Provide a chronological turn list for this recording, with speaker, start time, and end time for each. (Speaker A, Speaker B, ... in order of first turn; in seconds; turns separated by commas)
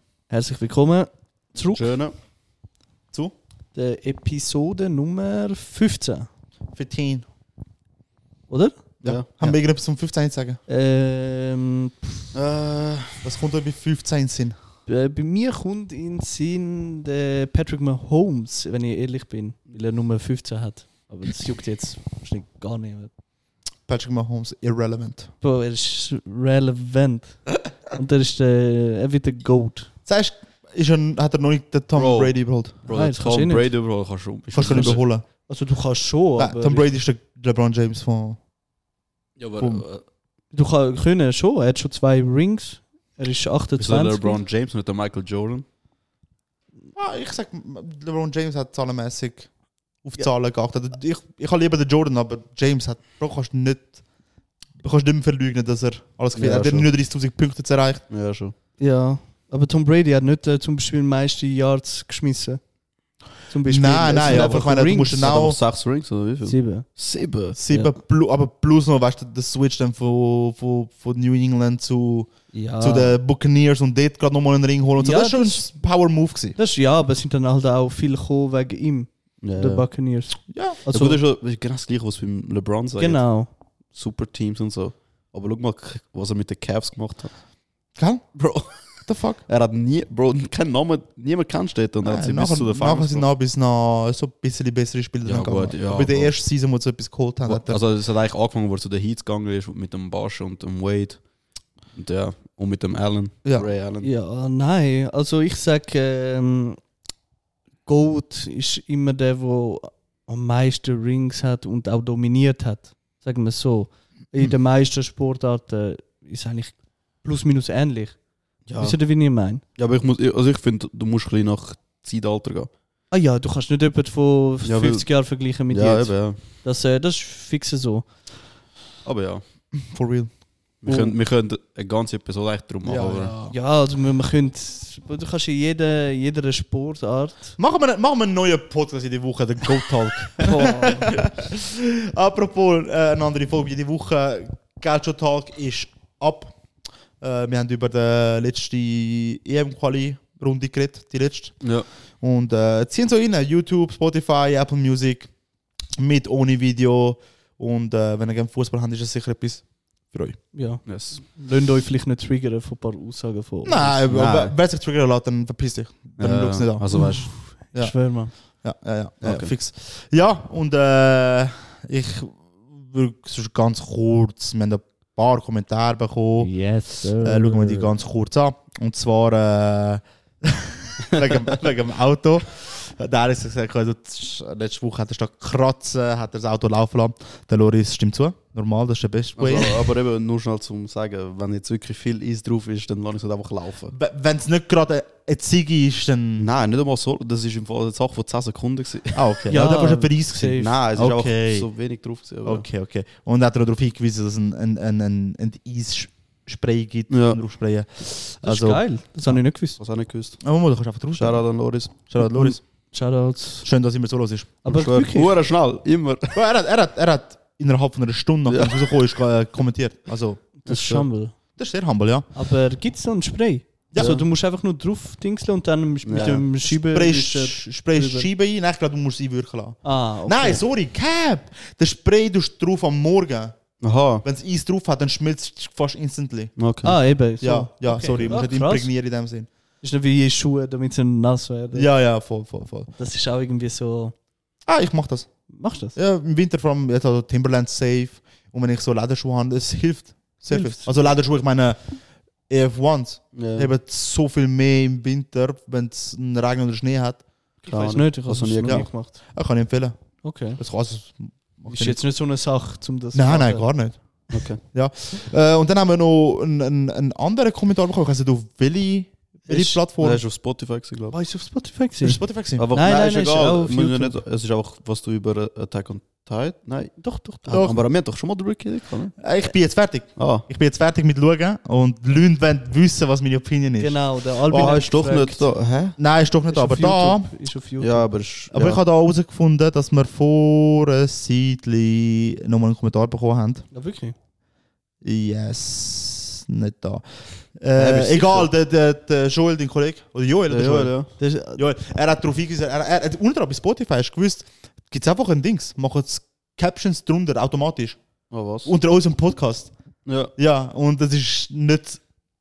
Speaker A: 0.3-1.9, Speaker B: 1.7-2.1, Speaker A: 3.7-6.3, Speaker C: 6.7-7.2, Speaker A: 8.5-8.8, Speaker C: 9.0-10.6, Speaker B: 9.0-9.5, Speaker A: 10.7-12.2, Speaker B: 12.3-13.3, Speaker C: 13.2-14.6, Speaker A: 14.8-23.1, Speaker C: 23.9-25.3, Speaker A: 25.4-29.9, Speaker C: 30.1-32.8, Speaker B: 31.9-35.0, Speaker A: 32.9-33.7, Speaker C: 34.5-35.2, Speaker A: 34.7-36.9, Speaker C: 36.4-38.4, Speaker B: 39.4-40.0, Speaker C: 39.5-39.8, Speaker A: 40.5-44.4, Speaker B: 43.8-45.6, Speaker C: 47.0-49.5, Speaker C: 50.0-54.0, Speaker C: 54.8-58.0, Speaker B: 56.3-56.9, Speaker B: 58.1-58.5, Speaker A: 58.8-62.6, Speaker A: 63.5-65.3, Speaker C: 63.6-65.6, Speaker B: 64.2-67.6, Speaker A: 66.4-66.8, Speaker C: 67.5-76.6, Speaker A: 67.7-67.9, Speaker A: 72.5-73.2, Speaker A: 75.0-75.7, Speaker A: 76.5-81.2, Speaker B: 79.4-79.8, Speaker C: 80.5-80.8, Speaker B: 80.9-83.3, Speaker A: 83.0-83.5, Speaker B: 83.9-87.3, Speaker C: 88.0-88.4, Speaker B: 88.3-93.2, Speaker C: 89.1-89.4, Speaker C: 92.0-97.8, Speaker B: 95.2-96.3, Speaker B: 97.5-101.2, Speaker B: 101.9-104.1, Speaker A: 104.0-106.8, Speaker A: 107.8-119.6, Speaker B: 118.7-119.0, Speaker B: 119.8-122.7, Speaker A: 123.1-128.1, Speaker B: 124.6-125.1, Speaker B: 125.7-126.4, Speaker B: 129.0-129.4, Speaker C: 129.8-130.3, Speaker B: 130.8-133.3, Speaker C: 132.8-133.6, Speaker A: 133.5-137.6, Speaker C: 137.6-146.5, Speaker A: 140.4-141.1, Speaker C: 147.2-151.6, Speaker B: 151.6-151.9, Speaker C: 152.2-155.3, Speaker C: 156.0-160.4, Speaker A: 160.5-163.9, Speaker B: 160.8-161.2, Speaker C: 163.6-166.9, Speaker B: 164.0-164.5, Speaker B: 166.2-167.3, Speaker A: 166.9-168.3, Speaker C: 167.7-176.5, Speaker B: 169.2-169.5, Speaker A: 176.4-177.9, Speaker C: 177.1-189.9, Speaker B: 189.4-193.9, Speaker C: 193.9-196.5, Speaker B: 196.4-199.3, Speaker C: 199.1-201.7, Speaker A: 199.5-200.7, Speaker B: 200.5-202.7, Speaker C: 202.4-208.8, Speaker B: 207.1-207.4, Speaker A: 208.4-209.8, Speaker B: 209.8-210.4, Speaker C: 210.4-211.4, Speaker B: 211.1-212.5, Speaker C: 212.1-212.6, Speaker A: 212.9-213.7, Speaker C: 213.6-214.6, Speaker A: 214.6-215.3, Speaker B: 214.7-216.3, Speaker C: 216.3-220.4, Speaker B: 218.5-218.7, Speaker A: 220.6-221.3, Speaker B: 220.7-221.1, Speaker C: 221.6-222.3, Speaker A: 222.3-228.3, Speaker C: 223.9-224.2, Speaker B: 223.9-224.2, Speaker B: 226.0-226.4, Speaker C: 226.7-233.6, Speaker A: 229.8-230.6, Speaker B: 233.8-234.2, Speaker C: 234.2-236.5, Speaker B: 236.6-237.0, Speaker A: 236.8-238.9, Speaker C: 237.4-239.5, Speaker A: 239.8-241.9, Speaker C: 241.7-242.9, Speaker A: 243.0-244.1, Speaker C: 244.7-245.3, Speaker A: 245.5-245.9, Speaker C: 245.9-251.8, Speaker A: 250.5-250.9, Speaker C: 252.5-257.2, Speaker B: 253.3-253.7, Speaker A: 257.6-259.2, Speaker B: 257.6-258.9, Speaker C: 258.7-260.0, Speaker A: 260.2-260.6, Speaker C: 260.6-262.0, Speaker A: 261.7-263.6, Speaker C: 263.1-270.2, Speaker B: 264.3-264.6, Speaker A: 269.4-269.8, Speaker B: 270.0-271.1, Speaker A: 271.1-274.2, Speaker C: 272.0-272.7, Speaker B: 272.6-279.2, Speaker A: 277.0-277.6, Speaker C: 277.5-277.8, Speaker C: 279.2-284.8, Speaker B: 280.1-280.4, Speaker A: 283.8-285.4, Speaker B: 284.5-286.0, Speaker C: 286.0-287.3, Speaker A: 286.5-288.1, Speaker B: 287.8-288.8, Speaker C: 288.5-293.6, Speaker A: 293.7-294.1, Speaker C: 295.0-300.9, Speaker B: 297.8-298.5, Speaker B: 300.5-301.1, Speaker A: 301.2-301.6, Speaker C: 301.5-308.0, Speaker B: 308.3-308.7, Speaker C: 308.6-309.7, Speaker B: 310.1-310.3, Speaker C: 310.4-312.0